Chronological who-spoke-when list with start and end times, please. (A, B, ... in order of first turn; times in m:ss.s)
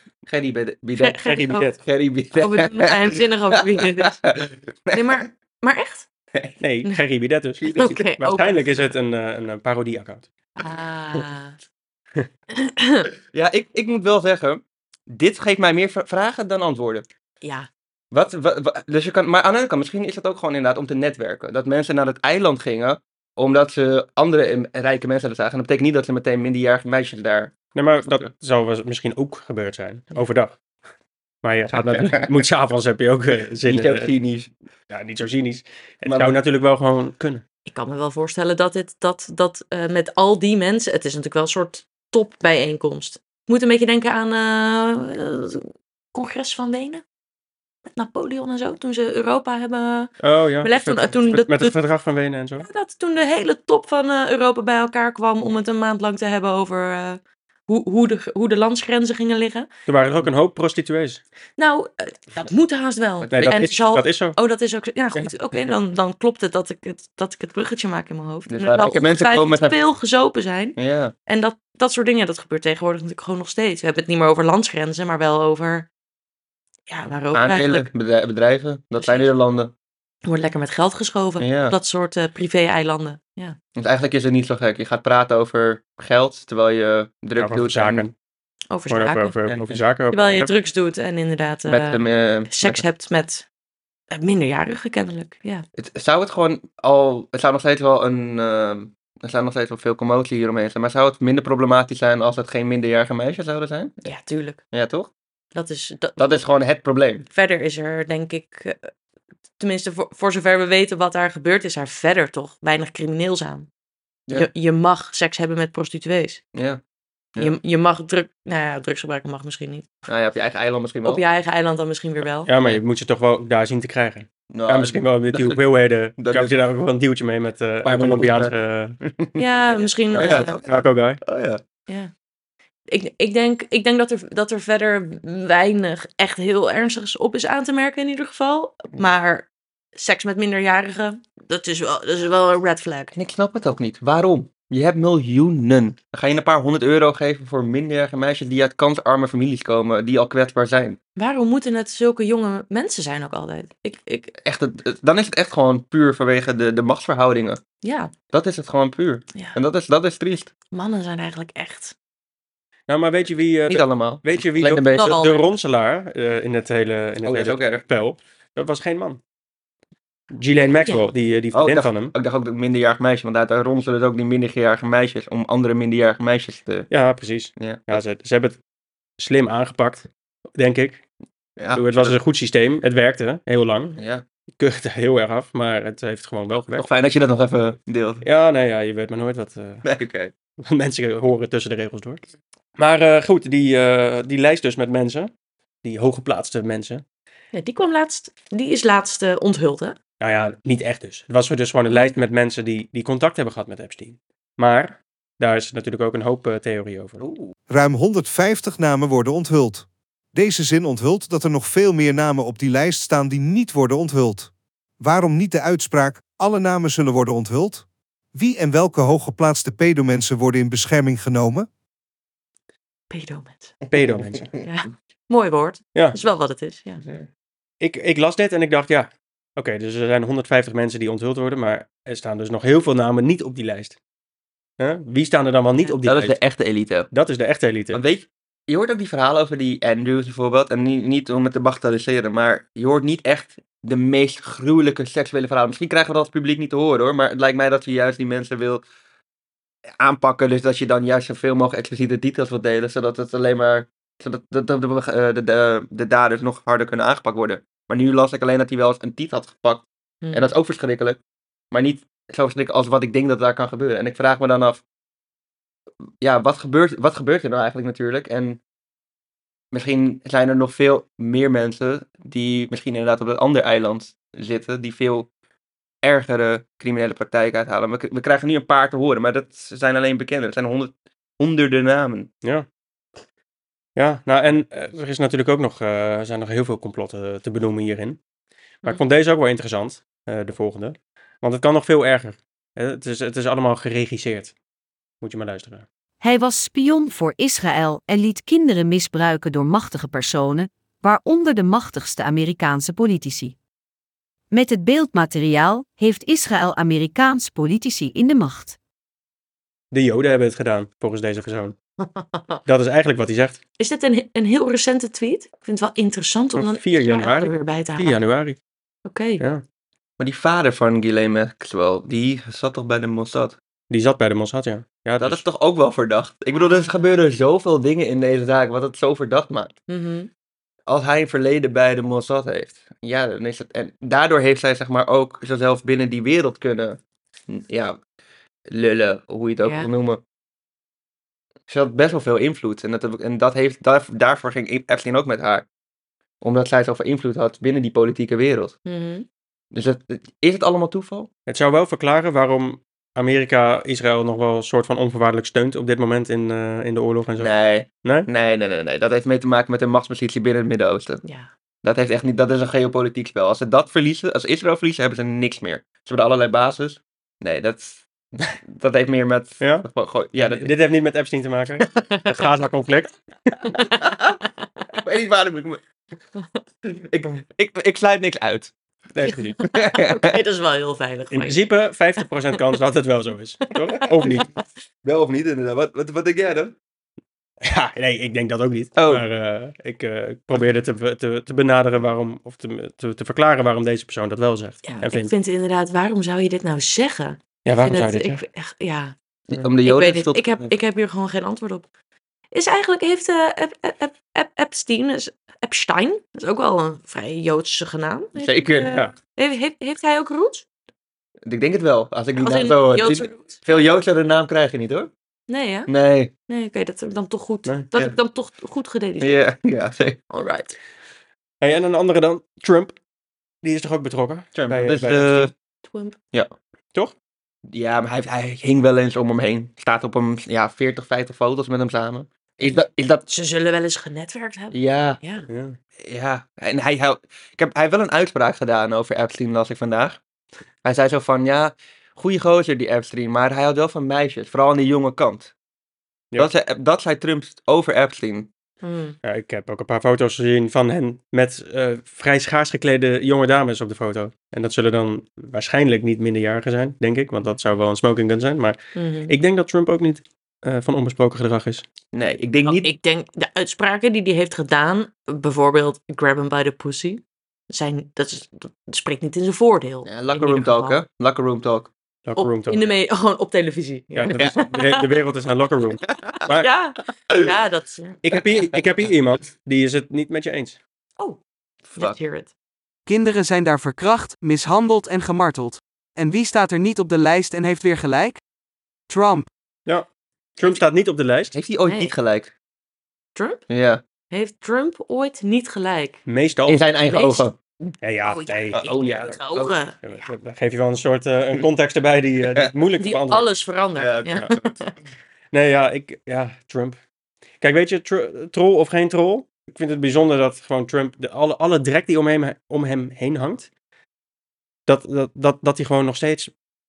0:00.2-0:02.9 A
0:01.0-0:01.7 B
0:01.3-0:01.8 C
0:02.4-0:04.2 B
0:03.6-0:05.2 A
0:04.9-0:06.1 B
0:06.6-0:10.2 C
0:07.6-0:08.0 A
0:07.7-0:08.6 B
0:10.6-0:11.5 B
0:12.5-0:13.1 B
0:13.3-0:17.0 A
0:17.4-0:17.7 B
0:18.1-0:27.5 A
0:27.7-0:30.6 C
0:31.4-0:34.1 C
0:31.8-0:32.2 A
0:33.7-0:34.5 A
0:34.9-0:37.4 C
0:36.0-0:36.4 A
0:37.6-0:47.0 B
0:47.9-0:51.8 B
0:50.2-0:52.6 C
0:52.6-0:59.7 B
0:59.9-1:01.2 C
1:01.6-1:15.9 B
1:03.2-1:03.5 A
1:03.3-1:04.4 C
1:08.5-1:09.8 A
1:10.8-1:11.1 A
1:16.9-1:17.9 B
1:17.3-1:19.7 A
1:19.0-1:19.3 B
1:20.2-1:23.6 B
1:21.4-1:21.7 A
1:23.8-1:28.0 A
1:27.4-1:28.1 C
1:28.7-1:29.3 B
1:28.9-1:30.5 C
1:29.5-1:29.8 A
1:30.1-1:33.4 B
1:31.7-1:32.8 A
1:34.1-1:35.6 B
1:35.8-1:44.0 A
1:44.0-1:44.6 B
1:44.7-1:45.1 A
1:45.5-1:46.4 B
1:46.2-1:47.2 A
1:47.3-1:48.9 B
1:49.6-1:53.7 B
1:54.3-1:56.4 B
1:56.5-1:56.8 A
1:57.4-1:59.9 B
2:00.1-2:01.2 A
2:01.0-2:02.5 B
2:02.5-2:09.0 C
2:04.5-2:05.6 A
2:06.2-2:06.6 A
2:07.8-2:08.5 A
2:09.0-2:09.4 A
2:09.4-2:10.6 B
2:10.1-2:11.6 A
2:10.2-2:11.2 C
2:12.9-2:23.1 B
2:23.1-2:31.0 A
2:31.2-2:34.3 B
2:34.4-2:37.6 A
2:37.8-2:38.1 B
2:38.3-2:40.5 A
2:40.7-2:41.9 B
2:42.9-2:49.2 C
2:43.7-2:45.2 A
2:44.9-2:45.4 B
2:47.2-2:47.8 A
2:50.3-2:52.1 C
2:51.5-2:56.9 A
2:56.9-2:58.6 C
2:57.6-2:58.0 A
2:59.2-3:01.0 C
3:01.6-3:02.2 A
3:01.7-3:04.0 C
3:04.0-3:04.2 A
3:04.6-3:06.9 C
3:06.8-3:08.2 A
3:08.2-3:09.8 C
3:09.8-3:10.3 A
3:10.6-3:12.2 C
3:12.8-3:15.3 C
3:15.8-3:17.0 C
3:17.5-3:20.0 B
3:20.2-3:27.2 C
3:27.2-3:27.5 A
3:27.7-3:41.7 D
3:43.1-3:43.8 B
3:43.9-3:44.4 C
3:44.0-3:44.5 A
3:44.6-3:47.0 B
3:47.8-3:54.0 C
3:54.8-3:56.4 C
3:56.0-3:57.1 A
3:57.1-3:58.0 C
3:57.9-4:08.8 A
4:10.0-4:21.2 A
4:20.2-4:20.5 B
4:21.7-4:24.8 A
4:26.2-4:28.6 A
4:29.7-4:35.3 A
4:36.0-4:42.3 A
4:44.0-4:48.2 C
4:48.8-4:54.5 C
4:55.2-4:55.8 C
4:56.2-5:03.6 E
5:04.5-5:08.8 E
5:09.9-5:11.8 C
5:12.6-5:13.6 C
5:13.8-5:18.2 B
5:16.6-5:18.6 C
5:19.0-5:19.4 B
5:20.2-5:23.6 A
5:23.9-5:25.4 C
5:25.2-5:29.7 A
5:26.5-5:27.0 B
5:29.9-5:30.3 B
5:30.9-5:37.0 A
5:37.5-5:38.0 A
5:38.7-5:40.2 A
5:41.7-5:45.6 A
5:46.4-5:48.8 A
5:48.9-5:49.2 B
5:49.7-5:51.3 A
5:51.5-5:58.3 C
5:57.4-6:01.2 A
6:01.2-6:01.5 B
6:01.8-6:10.7 A
6:09.6-6:09.8 C
6:10.4-6:13.7 C
6:13.8-6:14.4 A
6:14.9-6:15.8 A
6:16.8-6:18.7 A
6:19.1-6:19.6 C
6:19.2-6:21.6 B
6:19.6-6:20.3 A
6:21.3-6:24.5 C
6:25.0-6:26.7 A
6:27.6-6:35.3 C
6:29.0-6:29.2 A
6:34.8-6:39.1 B
6:37.6-6:38.4 C
6:39.5-6:40.7 A
6:39.8-6:41.8 B
6:42.5-6:50.6 B
6:48.4-6:49.0 A
6:48.9-6:49.1 C
6:51.5-6:55.1 A
6:52.4-6:53.8 B
6:55.5-6:55.9 B
6:55.9-6:56.3 A
6:56.5-6:59.4 B
6:59.2-7:00.2 A
7:00.3-7:00.8 B
7:01.6-7:02.9 C
7:03.6-7:05.5 C
7:04.5-7:05.5 A
7:05.8-7:06.2 B
7:07.7-7:13.2 A
7:13.3-7:15.5 B
7:14.7-7:15.2 A
7:15.5-7:15.8 C
7:16.0-7:20.2 A
7:20.8-7:25.5 A
7:26.4-7:28.5 A
7:28.8-7:29.2 B
7:29.2-7:41.8 C
7:38.9-7:39.3 B
7:42.1-7:42.9 A
7:42.6-7:51.0 B
7:50.0-7:51.9 A
7:52.2-7:52.9 C
7:52.4-7:55.0 B
7:54.1-7:56.7 C
7:54.3-7:54.7 A
7:56.3-7:58.2 B
7:58.2-8:00.8 C
8:01.9-8:02.5 B
8:03.1-8:08.4 F
8:09.1-8:09.5 F
8:09.8-8:11.6 C
8:11.5-8:12.5 A
8:11.8-8:12.1 B
8:13.4-8:13.6 B
8:13.7-8:14.0 A
8:14.3-8:16.2 B
8:16.3-8:16.8 C
8:16.7-8:17.5 A
8:17.1-8:20.3 B
8:18.0-8:18.8 C
8:18.7-8:19.7 A
8:20.0-8:23.5 C
8:23.0-8:24.9 B
8:24.0-8:24.7 A
8:25.5-8:27.0 C
8:27.6-8:33.7 C
8:34.9-8:36.5 C